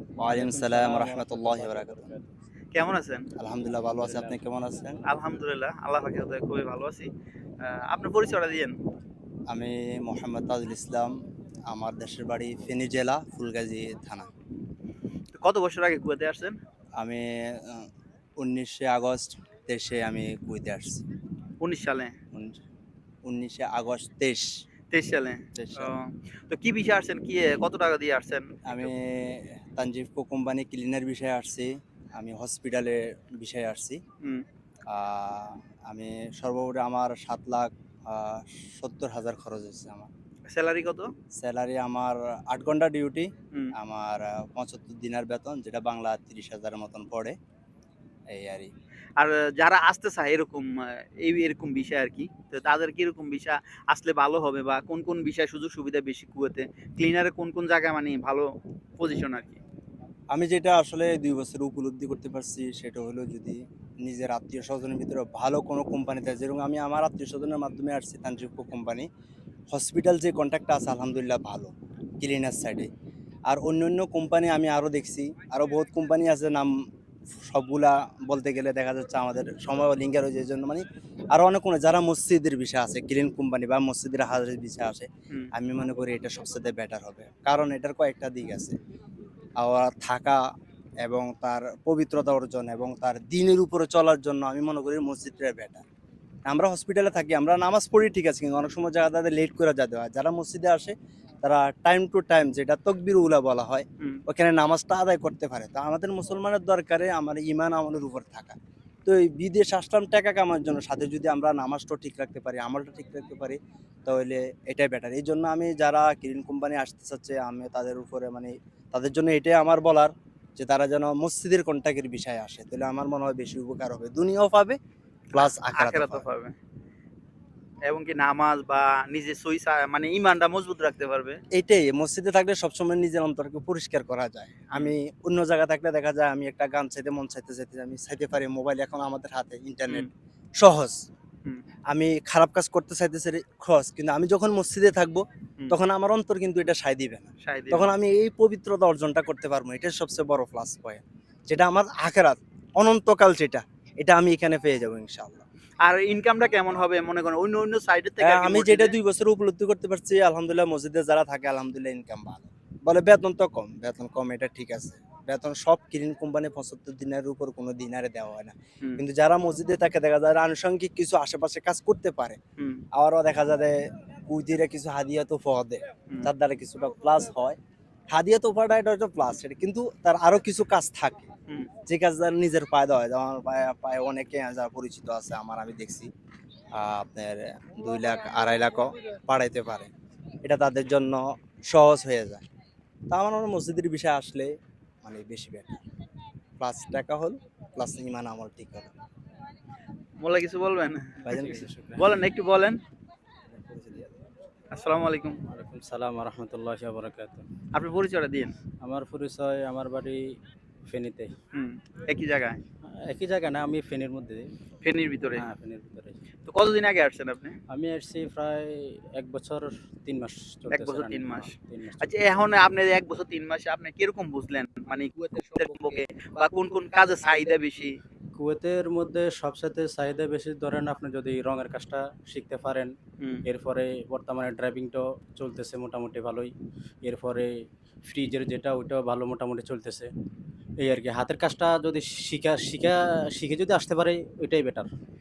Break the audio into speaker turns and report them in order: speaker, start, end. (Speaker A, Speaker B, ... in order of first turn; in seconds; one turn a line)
Speaker A: 0.2-2.1
Speaker B: 0.3-2.3
Speaker C: 2.7-3.3
Speaker A: 3.4-5.0
Speaker B: 3.9-4.4
Speaker C: 5.0-7.1
Speaker C: 7.6-8.8
Speaker A: 9.5-14.3
Speaker C: 15.3-16.6
Speaker A: 17.0-17.9
Speaker A: 18.4-21.1
Speaker C: 21.6-22.1
Speaker A: 22.3-22.6
Speaker A: 23.2-24.5
Speaker C: 24.9-28.9
Speaker A: 25.5-25.9
Speaker A: 28.6-34.0
Speaker A: 34.9-40.1
Speaker C: 40.5-41.1
Speaker A: 41.4-47.4
Speaker A: 48.3-48.7
Speaker C: 49.2-59.6
Speaker A: 60.3-69.1
Speaker A: 69.7-72.9
Speaker A: 73.5-76.7
Speaker A: 77.3-88.7
Speaker A: 89.6-90.4
Speaker A: 91.0-95.8
Speaker A: 96.5-124.8
Speaker A: 125.3-126.2
Speaker C: 125.3-126.5
Speaker C: 127.9-131.4
Speaker A: 131.5-141.0
Speaker A: 141.9-155.4
Speaker C: 147.4-147.9
Speaker C: 155.8-158.9
Speaker A: 158.2-172.4
Speaker C: 172.6-172.8
Speaker A: 172.9-177.6
Speaker A: 178.1-181.3
Speaker A: 181.8-186.1
Speaker A: 186.8-189.9
Speaker A: 190.4-192.4
Speaker A: 193.1-194.5
Speaker A: 195.0-195.8
Speaker A: 196.6-198.9
Speaker C: 200.2-202.8
Speaker B: 201.2-202.1
Speaker A: 203.5-204.2
Speaker C: 204.7-205.4
Speaker B: 205.5-207.5
Speaker C: 207.7-208.5
Speaker B: 208.8-210.2
Speaker B: 210.9-211.3
Speaker C: 211.5-212.6
Speaker B: 212.8-214.5
Speaker C: 214.8-215.5
Speaker B: 215.4-216.2
Speaker C: 216.4-217.6
Speaker B: 217.7-222.3
Speaker C: 220.7-228.0
Speaker B: 228.3-232.9
Speaker C: 233.2-233.4
Speaker B: 233.4-236.5
Speaker B: 237.0-237.5
Speaker B: 238.1-240.1
Speaker B: 240.8-244.9